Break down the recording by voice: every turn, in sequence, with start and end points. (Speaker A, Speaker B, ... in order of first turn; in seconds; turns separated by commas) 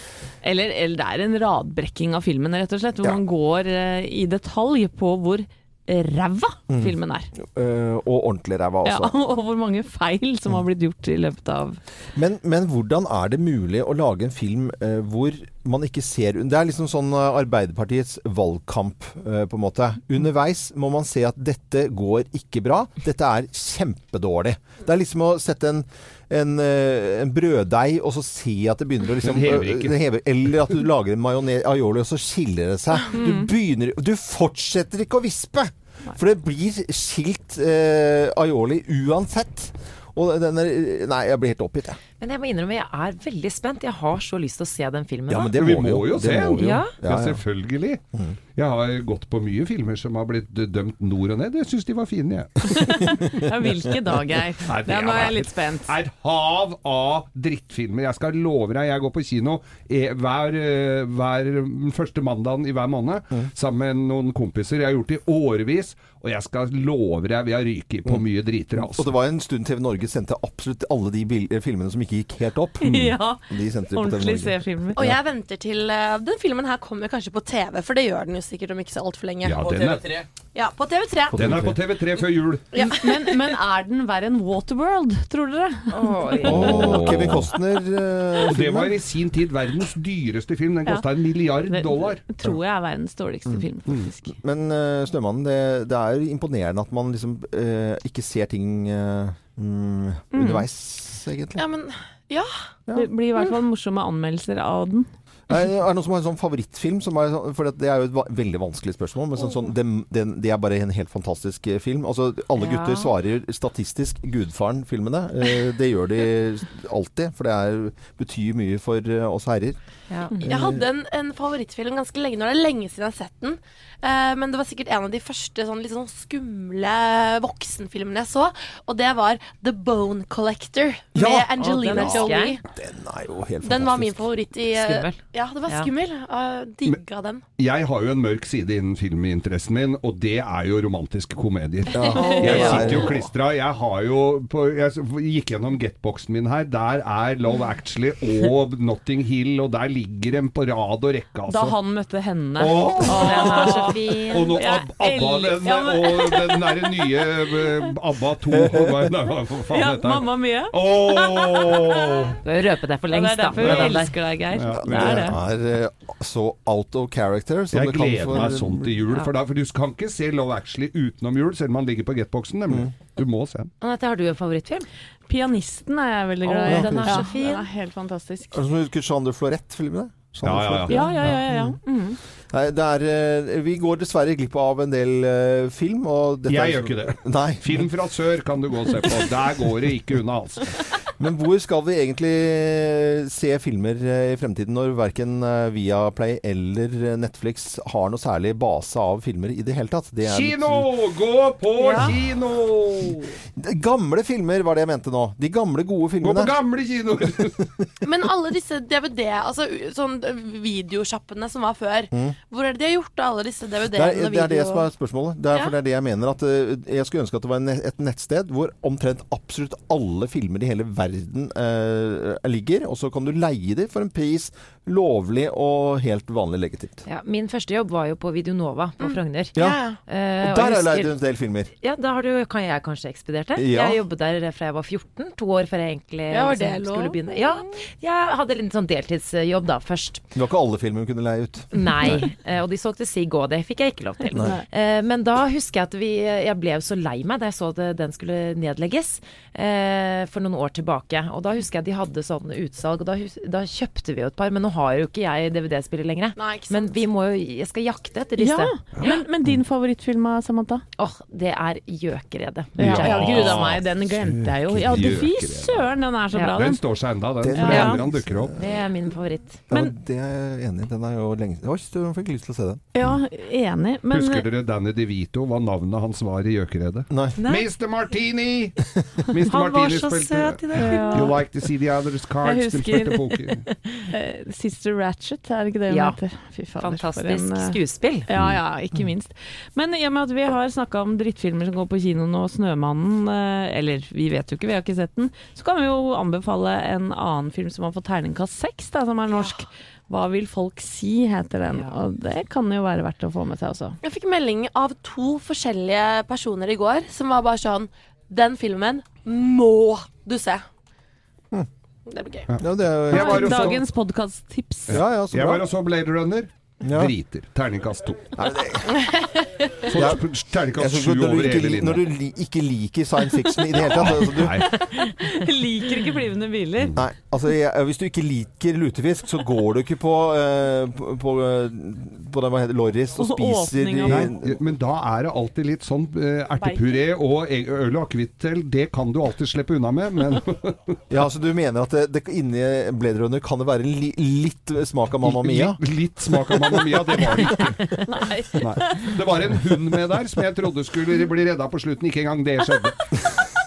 Speaker A: 0.4-7.3, Speaker B: 6.7-9.1, Speaker A: 8.8-11.8, Speaker B: 12.1-42.0, Speaker C: 29.2-29.9, Speaker D: 42.2-45.5, Speaker B: 45.3-47.4, Speaker C: 45.5-48.0, Speaker D: 46.6-46.9, Speaker C: 48.5-53.0, Speaker A: 52.7-56.0, Speaker C: 54.6-69.1, Speaker B: 68.8-75.2, Speaker A: 72.8-75.0, Speaker E: 75.0-79.6, Speaker C: 79.4-80.2, Speaker E: 80.5-81.5, Speaker C: 81.3-82.8, Speaker B: 81.4-81.7, Speaker E: 82.7-83.0, Speaker A: 82.8-87.0, Speaker D: 85.9-86.8, Speaker C: 86.4-87.5, Speaker B: 86.4-88.9, Speaker C: 88.5-92.2, Speaker A: 90.8-94.3, Speaker B: 94.3-101.6, Speaker A: 100.3-100.7, Speaker E: 101.5-102.5, Speaker A: 102.9-105.1, Speaker B: 105.5-119.8, Speaker D: 112.6-113.1, Speaker D: 120.1-120.3, Speaker B: 120.4-120.8, Speaker E: 120.4-132.6, Speaker B: 131.1-134.3, Speaker D: 131.6-132.6, Speaker E: 133.6-137.4, Speaker D: 134.7-135.9, Speaker C: 137.6-151.8, Speaker B: 141.9-143.3, Speaker E: 142.1-142.8, Speaker D: 142.4-142.9, Speaker A: 151.5-157.3, Speaker C: 152.6-162.4, Speaker D: 153.0-154.6, Speaker B: 158.5-159.1, Speaker A: 159.7-161.8, Speaker D: 162.4-164.2, Speaker A: 163.1-165.4, Speaker C: 163.6-165.3, Speaker B: 164.8-168.9, Speaker C: 167.7-173.7, Speaker D: 173.8-174.9, Speaker A: 175.3-178.6, Speaker D: 176.4-177.7, Speaker B: 176.7-177.2, Speaker B: 178.5-181.7, Speaker C: 180.4-181.3, Speaker A: 180.9-182.2, Speaker B: 182.5-187.8, Speaker C: 186.5-190.7, Speaker B: 191.2-200.9, Speaker C: 200.2-203.4, Speaker E: 201.8-202.1, Speaker B: 203.5-206.5, Speaker C: 206.2-207.6, Speaker E: 208.0-214.9, Speaker B: 212.1-212.3, Speaker B: 213.9-227.0, Speaker D: 227.1-231.2, Speaker E: 229.0-230.0, Speaker B: 230.4-231.7, Speaker D: 231.8-240.2, Speaker B: 233.6-234.0, Speaker E: 236.3-237.6, Speaker B: 240.3-242.2, Speaker D: 241.7-259.2, Speaker A: 244.3-244.6, Speaker E: 256.3-256.9, Speaker A: 258.4-260.8, Speaker D: 261.0-263.5, Speaker A: 262.8-266.8, Speaker C: 262.8-268.6, Speaker D: 266.3-266.6, Speaker B: 267.4-268.6, Speaker A: 267.6-268.0, Speaker D: 267.7-268.0, Speaker D: 268.6-269.6, Speaker B: 269.7-272.9, Speaker A: 272.9-274.5, Speaker C: 274.1-283.6, Speaker B: 277.1-277.4, Speaker D: 277.4-277.7, Speaker D: 279.5-281.3, Speaker A: 280.7-281.4, Speaker A: 282.4-283.3, Speaker A: 284.1-304.0, Speaker D: 285.9-286.2, Speaker D: 286.8-288.3, Speaker E: 304.0-310.6, Speaker E: 312.1-312.5, Speaker C: 312.5-313.8, Speaker B: 312.6-313.8, Speaker A: 313.1-315.0, Speaker C: 314.9-318.3, Speaker B: 314.9-315.6, Speaker B: 316.8-317.1, Speaker B: 318.4-319.0, Speaker E: 319.0-319.9, Speaker C: 319.9-322.1, Speaker B: 319.9-320.2, Speaker B: 320.7-324.6, Speaker C: 323.7-324.8, Speaker A: 324.6-326.9, Speaker B: 326.9-334.6, Speaker A: 333.2-334.3, Speaker C: 334.1-340.9, Speaker B: 341.1-345.8, Speaker C: 345.2-348.0, Speaker A: 348.0-349.1, Speaker C: 348.6-353.1